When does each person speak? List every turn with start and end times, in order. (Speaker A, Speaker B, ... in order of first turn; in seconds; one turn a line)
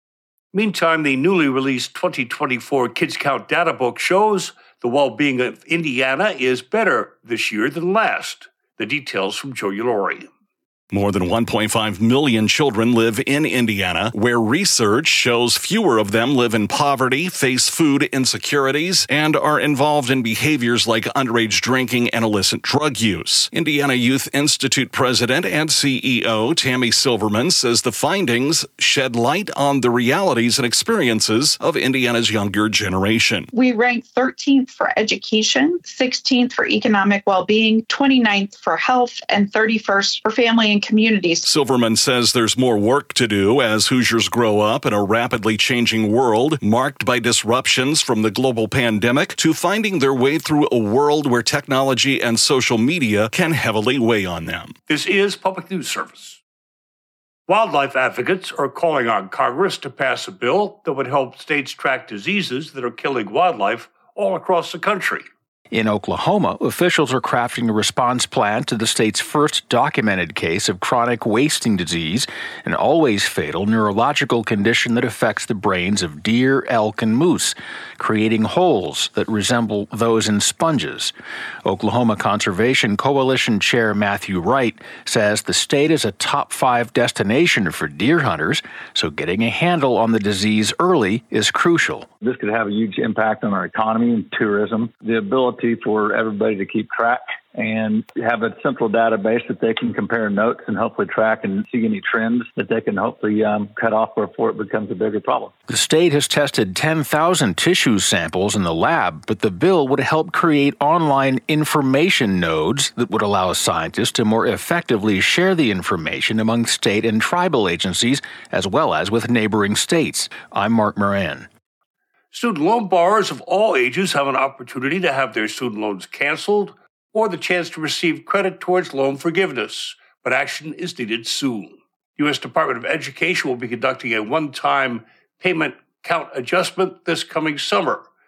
Speaker A: 0.5-10.3
Speaker B: 10.9-33.5
Speaker C: 33.5-41.4
Speaker B: 41.4-54.7
Speaker A: 54.9-56.4
Speaker A: 57.5-65.2
Speaker D: 65.7-92.1
Speaker E: 92.2-105.5
Speaker D: 105.7-121.5
Speaker A: 122.3-138.1